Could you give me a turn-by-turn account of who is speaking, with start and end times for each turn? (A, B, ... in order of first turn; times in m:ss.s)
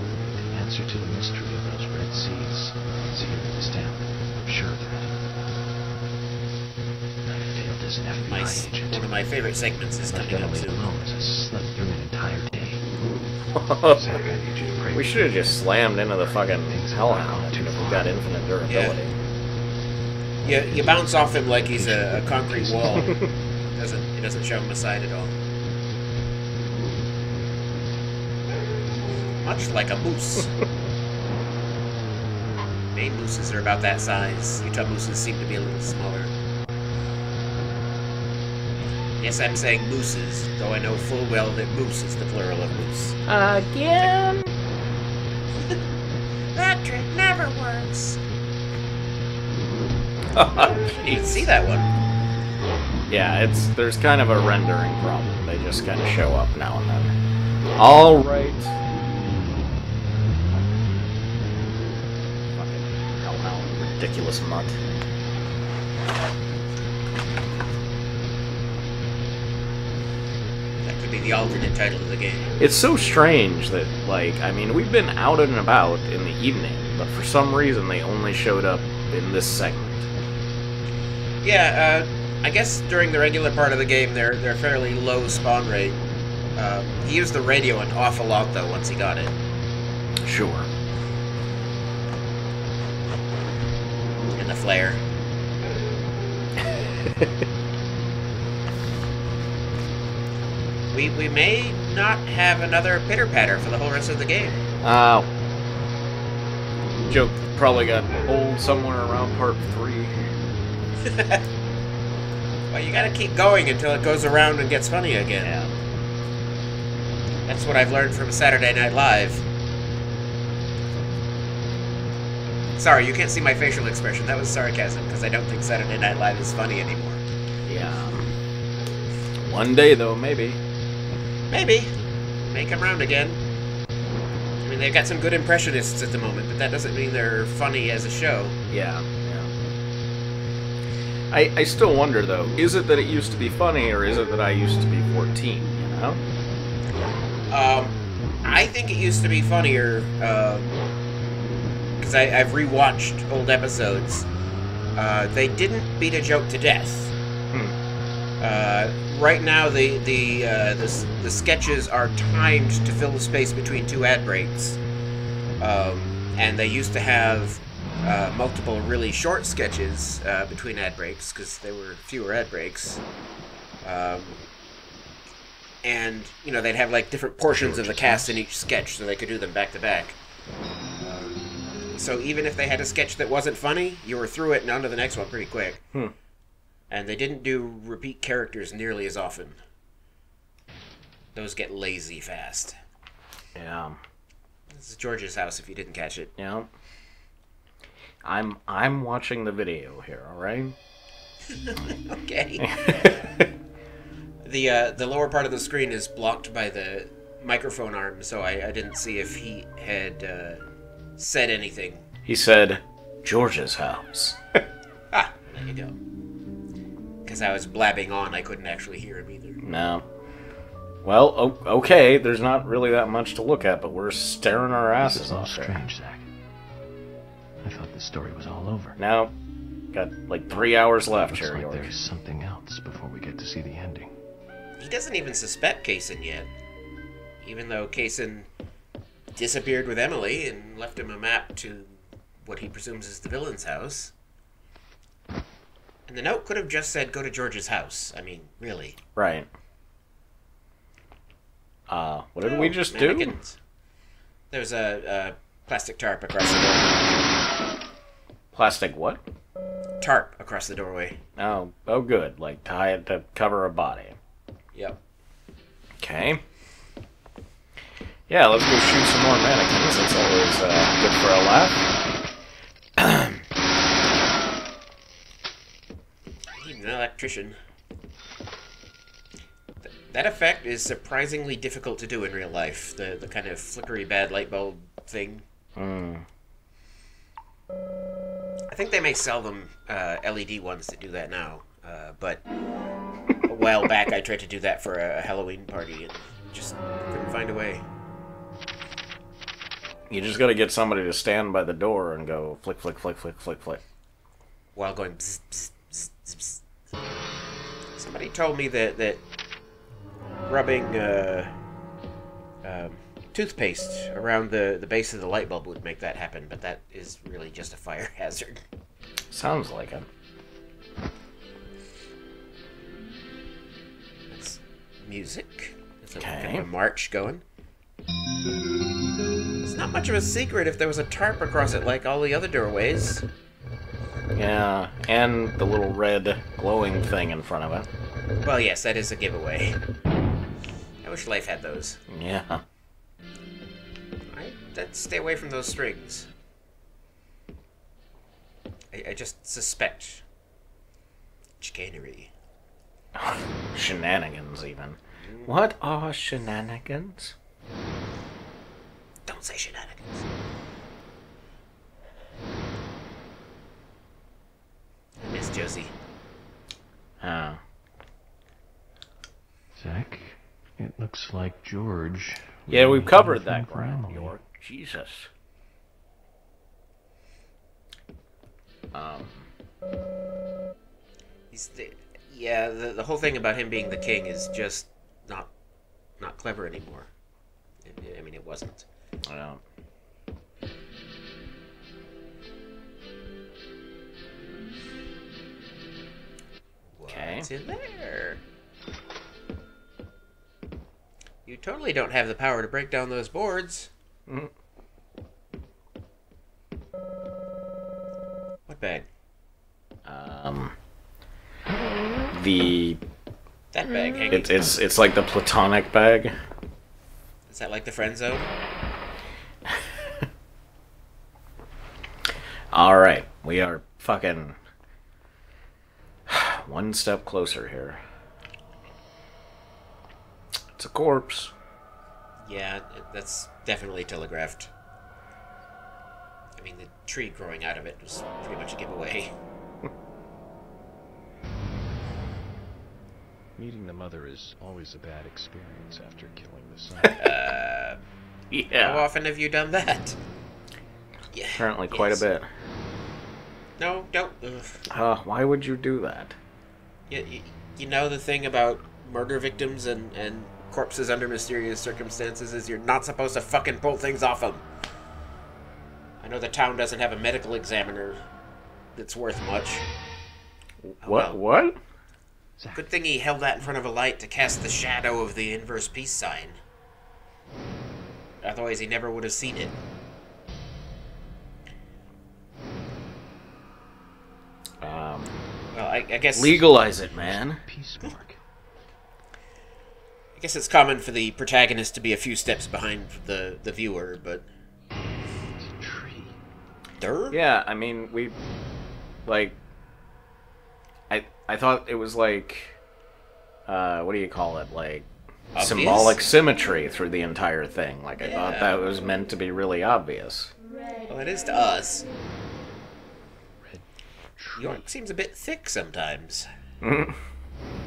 0:00.3-0:05.2 A
0:07.2-0:09.0 A
0:08.2-0:10.9 B
0:10.0-0:12.9 A
0:13.5-0:14.1 C
0:13.9-0:15.6 A
0:14.9-0:19.2 C
0:16.5-0:18.1 A
0:18.6-0:19.0 B
0:20.4-0:23.2 B
0:20.5-0:23.3 A
0:23.7-0:25.3 B
0:29.4-0:30.5 B
0:32.9-0:36.3 B
0:39.2-0:43.2 B
0:43.2-0:44.5 C
0:46.5-0:48.2 B
0:50.3-0:51.5 C
0:50.8-0:51.9 B
0:53.1-0:57.1 C
0:57.8-0:58.7 C
1:02.5-1:04.8 C
1:10.8-1:12.6 B
1:12.6-1:20.1 C
1:21.4-1:26.0 B
1:26.5-1:29.3 B
1:30.2-1:30.7 C
1:34.3-1:35.0 B
1:40.9-1:44.6 B
1:44.8-1:45.3 C
1:47.1-1:50.3 C
1:51.0-1:51.4 B
1:52.7-1:55.5 B
1:55.4-1:55.8 C
1:57.4-1:59.4 B
2:02.8-2:07.2 B
2:07.6-2:08.3 C
2:09.4-2:10.6 C
2:11.5-2:13.4 B
2:14.6-2:18.6 B
2:18.7-2:19.5 C
2:21.3-2:26.2 C
2:27.5-2:30.8 B
2:32.0-2:34.3 B
2:34.9-2:37.1 B
2:38.4-2:44.8 B
2:45.6-2:53.0 B
2:53.8-2:54.4 B
2:55.8-3:00.2 B
2:57.5-2:58.4 C
3:01.0-3:01.4 B
3:01.9-3:05.8 B
3:06.9-3:09.6 B
3:11.3-3:12.8 B
3:13.5-3:14.0 C
3:14.7-3:16.3 B
3:16.4-3:16.7 C
3:18.2-3:20.8 C
3:21.5-3:23.3 B
3:22.6-3:23.4 C
3:24.4-3:30.6 B
3:31.2-3:32.0 B
3:32.2-3:34.4 C
3:35.1-3:36.0 B
3:37.2-3:39.6 B
3:39.6-3:40.0 C
3:41.0-3:45.8 C
3:45.0-3:46.2 A
3:47.6-3:49.0 A
3:49.0-3:49.3 C
3:49.9-3:51.9 C
3:51.0-3:54.1 A
3:54.8-3:56.5 B
3:57.4-3:58.5 B
3:59.3-4:04.1 B
4:06.1-4:09.0 B
4:09.2-4:09.5 C
4:11.9-4:13.4 C
4:12.4-4:13.6 B
4:14.5-4:17.1 B
4:18.5-4:19.2 C
4:20.0-4:21.2 B
4:21.4-4:24.2 C
4:24.7-4:25.0 B
4:26.0-4:26.4 C
4:28.3-4:31.9 C
4:33.0-4:33.4 C
4:36.5-4:37.6 B
4:39.8-4:45.4 B
4:45.8-4:46.2 C
4:48.7-4:52.4 B
4:53.4-4:57.8 B
5:00.1-5:03.8 C
5:04.7-5:06.6 B
5:08.0-5:09.2 B
5:10.4-5:11.5 B
5:12.6-5:18.6 B
5:19.3-5:20.1 C
5:24.3-5:27.4 B
5:26.2-5:26.7 C
5:29.6-5:33.2 B
5:34.3-5:37.9 C
5:38.4-5:39.8 B
5:41.0-5:42.0 B
5:42.1-5:42.6 C
5:44.3-5:46.3 B
5:48.9-5:50.2 B
5:51.6-5:52.3 B
5:53.1-5:57.3 C
5:55.2-5:55.5 B
5:59.3-6:00.2 B
6:05.2-6:05.9 B
6:07.2-6:07.6 C
6:09.7-6:14.3 A
6:12.7-6:15.3 C
6:18.9-6:19.5 C
6:21.5-6:25.5 B
6:26.2-6:27.1 B
6:27.8-6:28.8 B
6:29.2-6:29.6 C
6:36.9-6:38.4 B
6:37.1-6:37.5 C
6:41.4-6:43.9 B
6:48.7-6:49.1 B
6:50.0-6:50.8 C
6:52.3-6:53.0 C
6:53.7-6:54.7 B
6:54.3-6:56.3 C
6:57.5-6:58.5 B
7:02.7-7:04.6 C
7:06.3-7:08.0 C
7:10.8-7:11.5 C
7:12.4-7:14.7 B
7:16.6-7:19.3 B
7:23.6-7:27.3 A
7:27.1-7:28.0 B
7:28.5-7:29.1 C
7:28.8-7:30.2 B
7:31.3-7:32.2 B
7:31.5-7:32.5 C
7:33.8-7:34.8 B
7:34.9-7:36.4 C
7:37.1-7:44.6 B
7:46.2-7:48.2 B
7:48.9-7:49.8 B
7:50.8-7:51.8 C
7:51.0-7:51.4 B
7:52.6-7:52.8 A
7:52.7-7:56.6 B
7:58.4-7:59.8 B
8:04.8-8:05.3 C
8:05.7-8:06.6 B
8:06.3-8:07.6 C
8:07.1-8:08.4 A
8:10.4-8:14.5 B
8:15.6-8:16.4 A
8:17.0-8:17.4 B
8:17.3-8:18.4 C
8:19.2-8:19.6 C
8:21.1-8:22.8 C
8:23.7-8:30.5 C
8:25.5-8:26.2 B
8:28.2-8:28.8 B
8:31.1-8:32.0 B
8:33.6-8:33.8 A
8:34.4-8:34.9 A
8:34.6-8:36.5 B
8:36.8-8:37.2 C